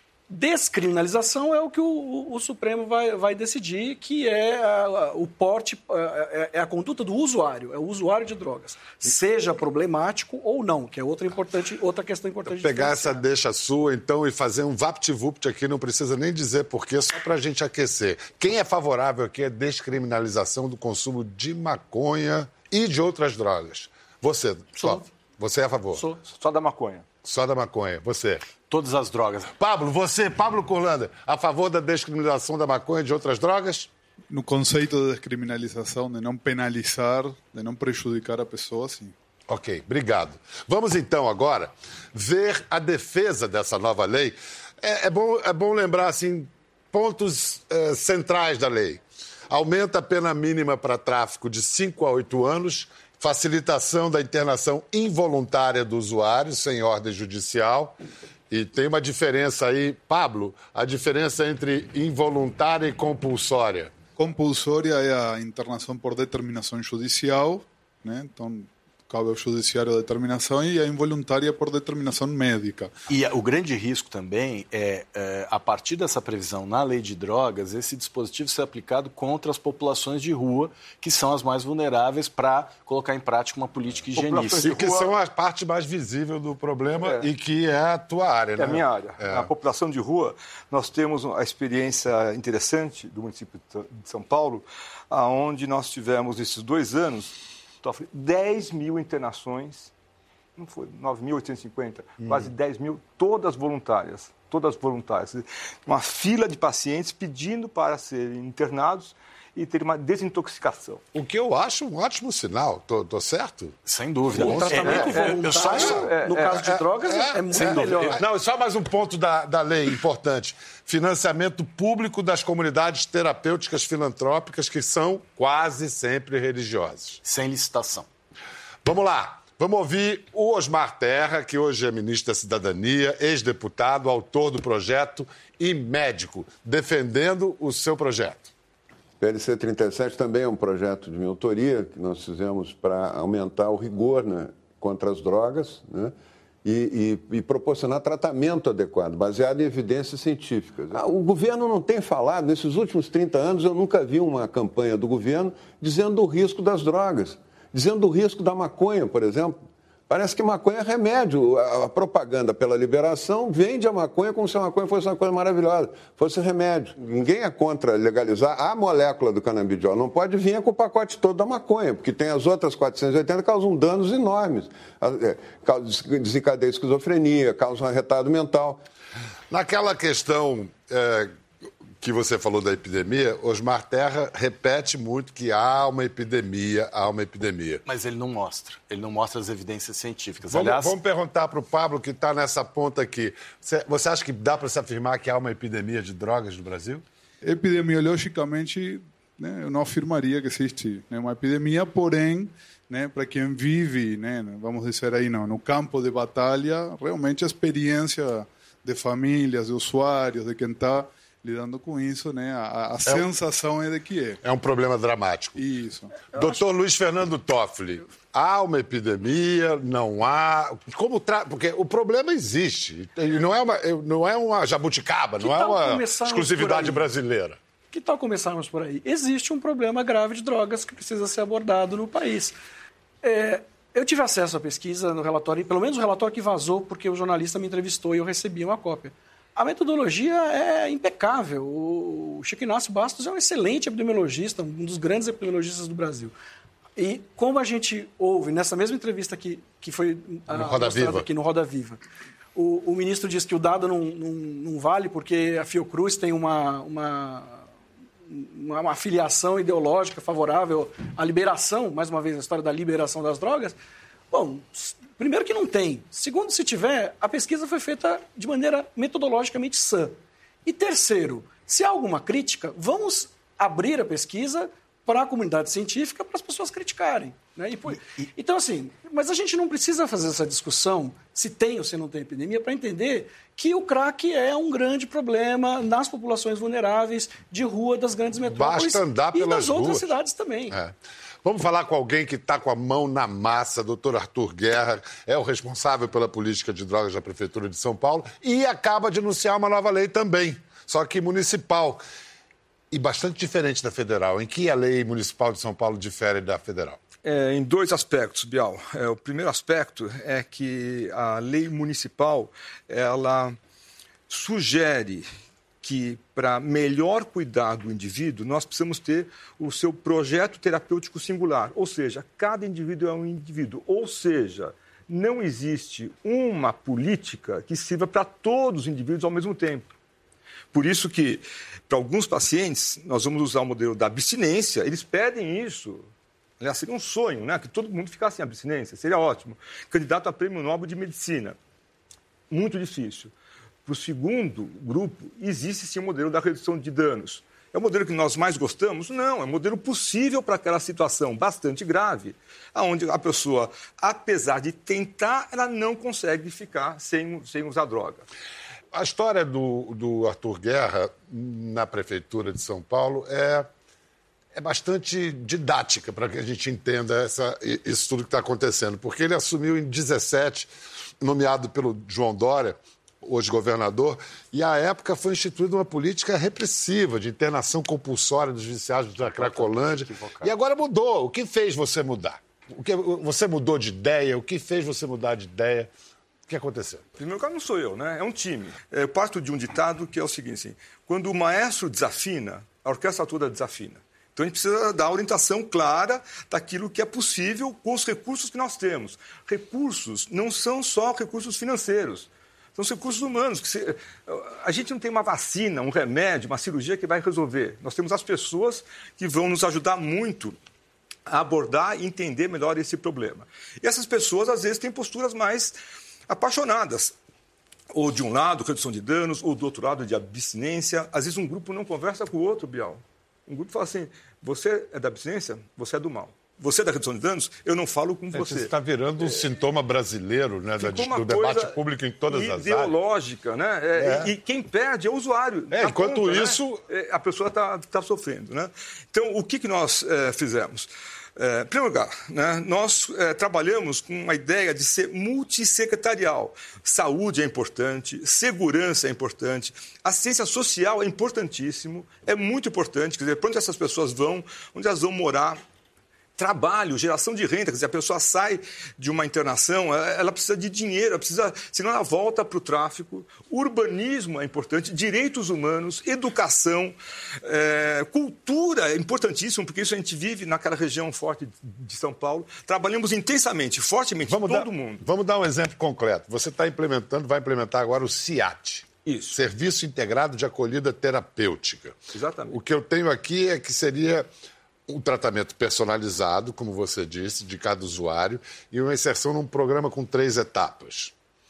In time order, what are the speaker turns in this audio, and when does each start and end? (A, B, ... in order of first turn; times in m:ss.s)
0:00.3-0:13.2 A
0:12.4-0:26.0 B
0:24.8-0:25.0 A
0:25.9-0:26.2 A
0:26.2-0:27.0 C
0:27.2-0:28.4 B
0:28.7-0:29.5 D
0:29.6-0:33.9 B
0:34.3-0:39.1 E
0:39.5-0:58.0 B
0:58.5-1:03.9 B
1:04.2-1:12.9 E
1:13.1-1:25.1 D
1:24.1-1:29.5 B
1:27.0-1:27.3 C
1:28.6-1:39.9 C
1:40.6-1:51.0 C
1:42.2-1:42.5 B
1:51.1-1:53.8 B
1:53.8-1:56.0 D
1:54.3-2:07.2 B
1:54.4-1:58.2 A
1:55.5-1:56.7 C
1:57.6-1:58.1 D
2:07.2-2:08.1 D
2:08.8-2:18.5 B
2:19.2-2:39.6 F
2:40.1-2:58.8 F
2:59.5-3:01.3 B
3:02.0-3:07.8 B
3:07.8-3:10.9 D
3:10.5-3:17.0 B
3:17.4-3:34.4 E
3:34.4-3:35.6 B
3:35.6-3:36.2 E
3:36.3-3:47.6 B
3:45.4-3:47.1 A
3:47.9-3:52.6 A
3:53.2-4:06.3 A
4:07.0-4:12.0 A
4:10.5-4:11.3 B
4:12.5-4:17.6 A
4:18.3-4:23.8 A
4:24.3-4:50.8 A
4:48.4-4:50.1 B
4:50.7-5:02.0 B
5:02.9-5:07.0 B
5:07.2-5:13.6 C
5:14.3-5:15.2 C
5:15.8-5:29.8 C
5:30.7-5:36.0 C
5:36.6-5:41.6 C
5:42.5-5:43.3 C
5:43.8-5:58.2 C
5:58.9-6:03.7 B
6:04.5-6:25.9 B
6:19.2-6:20.5 D
6:26.5-6:27.0 B
6:27.2-6:50.6 C
6:51.3-6:55.8 C
6:56.3-6:57.1 C
6:57.9-7:08.7 C
7:08.3-7:12.9 B
7:10.8-7:35.6 C
7:14.0-7:14.3 B
7:15.7-7:16.8 B
7:36.4-7:55.0 C
7:54.3-8:02.0 B
7:59.0-7:59.4 C
8:02.1-8:02.6 C
8:02.5-8:04.3 B
8:04.9-8:11.1 B